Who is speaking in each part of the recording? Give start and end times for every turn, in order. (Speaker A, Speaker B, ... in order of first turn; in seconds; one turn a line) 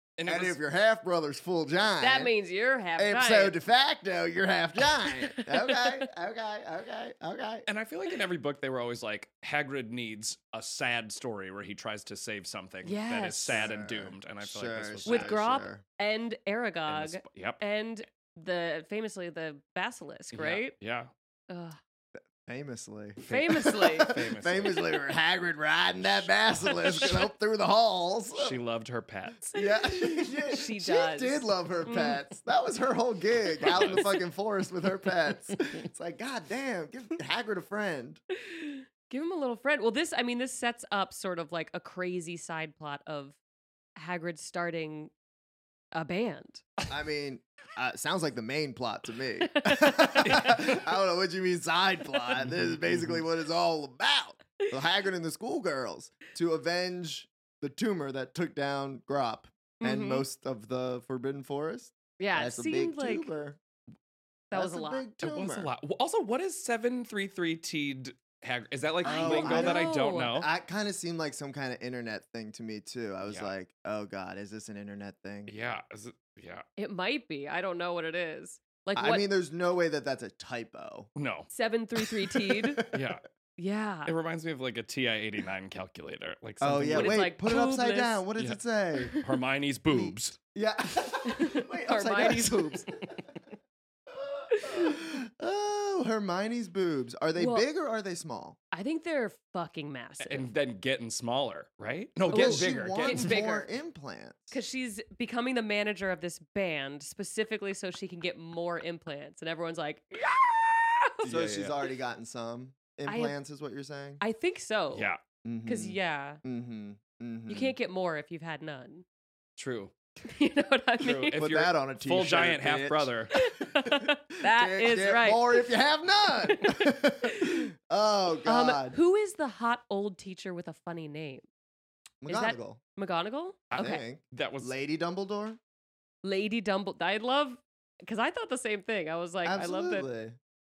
Speaker A: 0.2-0.6
Speaker B: 0.3-2.3
Speaker C: 2.0-3.6
Speaker B: 3.0-7.7
Speaker C: 5.4-5.8
Speaker A: 7.7-15.3
Speaker C: 12.8-13.6
Speaker B: 13.5-15.8
Speaker C: 15.1-20.7
Speaker A: 16.9-17.6
Speaker A: 20.3-21.1
Speaker C: 21.5-21.8
Speaker B: 22.2-28.6
Speaker C: 23.2-24.1
Speaker A: 23.2-24.9
Speaker A: 26.8-27.1
Speaker A: 28.3-29.6
Speaker B: 29.5-38.2
Speaker C: 29.9-32.2
Speaker C: 33.6-34.0
Speaker A: 33.6-34.1
Speaker C: 38.4-43.4
Speaker C: 44.0-45.1
Speaker C: 45.9-46.6
Speaker B: 46.9-63.6
Speaker C: 49.6-50.0
Speaker A: 50.2-50.8
Speaker A: 52.7-53.2
Speaker C: 59.8-60.3
Speaker C: 62.2-63.3
Speaker C: 64.5-65.1
Speaker B: 64.5-65.7
Speaker A: 65.2-70.5
Speaker C: 69.0-70.3
Speaker B: 69.0-75.5
Speaker A: 73.2-73.5
Speaker A: 75.5-76.7
Speaker C: 76.8-79.3
Speaker B: 79.0-81.1
Speaker A: 81.2-81.5
Speaker C: 81.5-82.8
Speaker B: 82.5-83.2
Speaker A: 82.9-83.2
Speaker C: 83.6-84.1
Speaker A: 84.1-87.2
Speaker B: 86.6-89.2
Speaker C: 86.9-88.2
Speaker A: 89.2-90.4
Speaker B: 89.9-93.4
Speaker C: 91.2-92.9
Speaker B: 94.1-98.6
Speaker C: 94.5-95.0
Speaker C: 97.4-97.7
Speaker C: 98.7-100.5
Speaker A: 100.2-103.4
Speaker B: 102.3-104.6
Speaker C: 102.3-103.7
Speaker C: 104.5-111.3
Speaker A: 111.2-111.8
Speaker B: 111.2-114.2
Speaker C: 113.1-113.4
Speaker C: 114.2-115.1
Speaker A: 114.9-115.2
Speaker B: 115.4-117.8
Speaker C: 115.7-116.4
Speaker C: 117.5-119.0
Speaker A: 119.6-119.9
Speaker C: 120.2-121.4
Speaker A: 121.0-123.3
Speaker B: 121.3-129.0
Speaker C: 123.3-125.7
Speaker C: 126.5-127.6
Speaker C: 128.4-131.5
Speaker B: 132.2-132.8
Speaker C: 132.3-134.0
Speaker A: 133.7-134.7
Speaker B: 133.8-135.6
Speaker C: 136.2-140.1
Speaker B: 139.4-140.4